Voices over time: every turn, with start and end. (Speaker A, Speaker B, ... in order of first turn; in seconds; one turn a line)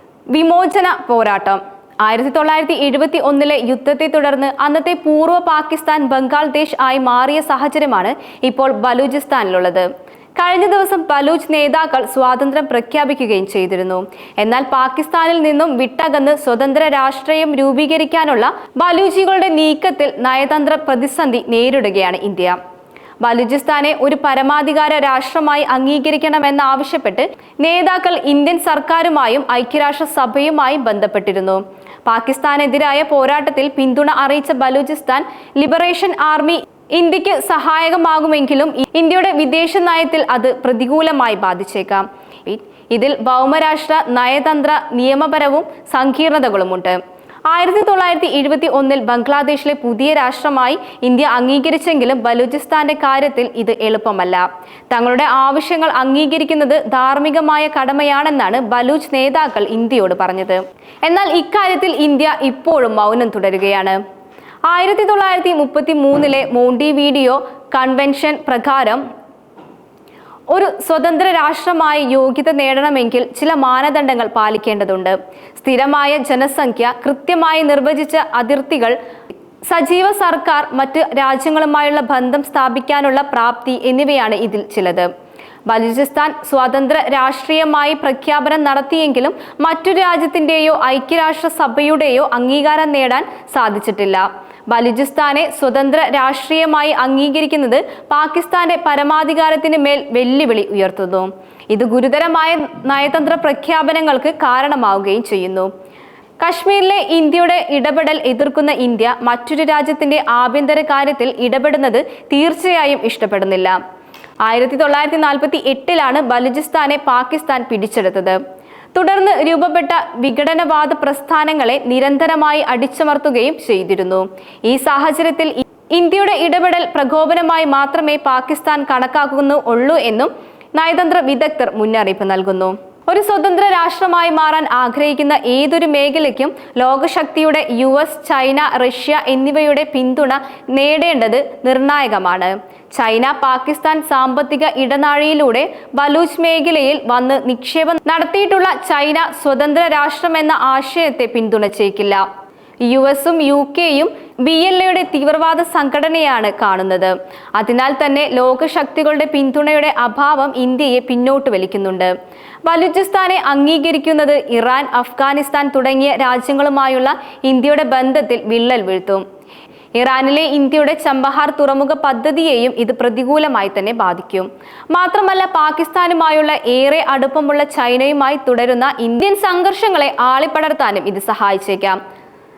Speaker A: 0.3-22.6
Speaker A: 23.2-47.0
Speaker A: 47.5-64.0
Speaker A: 64.7-69.0
Speaker A: 70.5-79.0
Speaker A: 79.7-85.1
Speaker A: 85.7-105.7
Speaker A: 106.4-113.8
Speaker A: 114.4-118.4
Speaker A: 119.0-152.3
Speaker A: 152.9-162.1
Speaker A: 162.7-169.2
Speaker A: 170.0-182.0